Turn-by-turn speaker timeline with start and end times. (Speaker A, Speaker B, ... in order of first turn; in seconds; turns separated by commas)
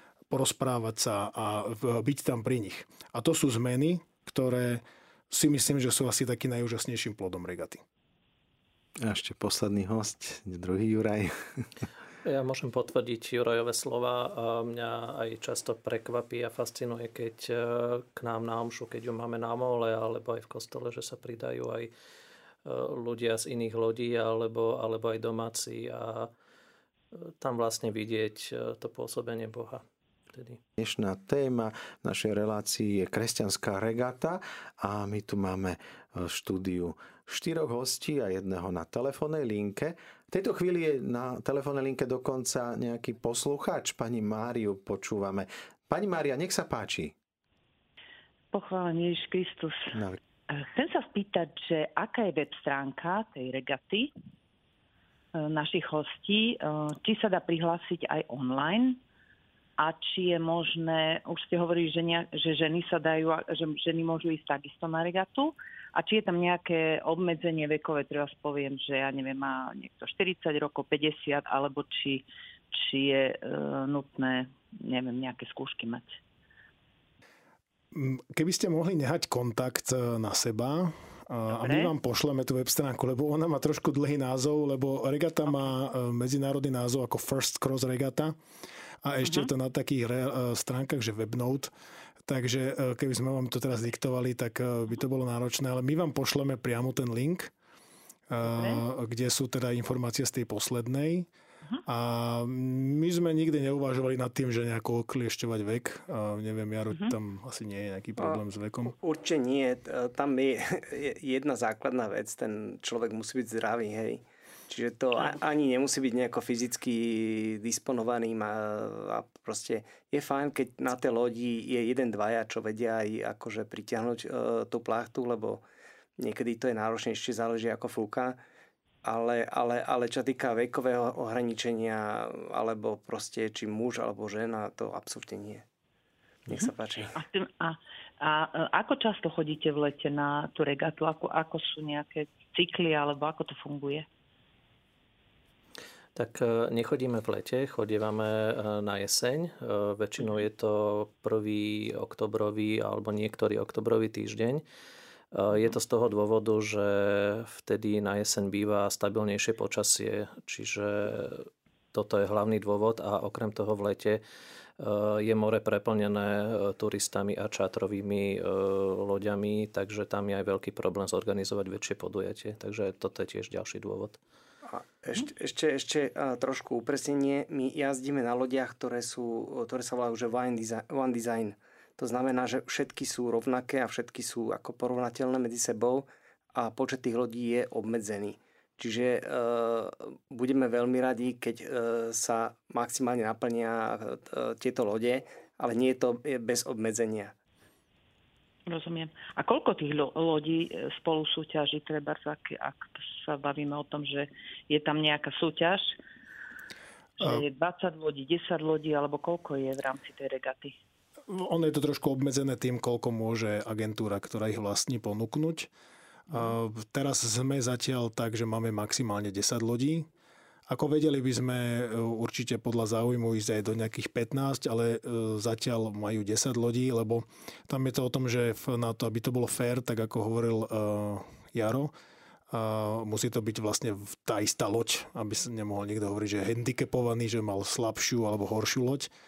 Speaker A: 0.3-7.8, Speaker B: 9.0-11.7, Speaker C: 12.2-21.9, Speaker C: 22.6-26.3, Speaker C: 27.1-30.6, Speaker B: 30.8-47.1, Speaker D: 48.5-50.0, Speaker B: 49.9-50.2, Speaker D: 50.5-54.1, Speaker D: 55.3-59.0, Speaker D: 59.8-76.2, Speaker A: 77.9-88.3, Speaker D: 81.5-81.9, Speaker A: 89.0-91.7, Speaker D: 89.2-89.5, Speaker A: 92.2-97.5, Speaker A: 98.3-101.3, Speaker D: 98.4-98.8, Speaker A: 101.8-108.9, Speaker E: 108.2-125.6, Speaker E: 126.2-128.4, Speaker E: 129.0-135.6, Speaker E: 136.5-137.2, Speaker D: 136.5-144.1, Speaker C: 146.2-154.6, Speaker C: 155.3-164.2, Speaker C: 164.8-174.2, Speaker E: 174.6-197.3, Speaker D: 198.7-205.9, Speaker D: 207.2-210.7, Speaker A: 211.3-215.7, Speaker A: 216.3-220.1, Speaker A: 220.7-231.9, Speaker A: 232.5-239.1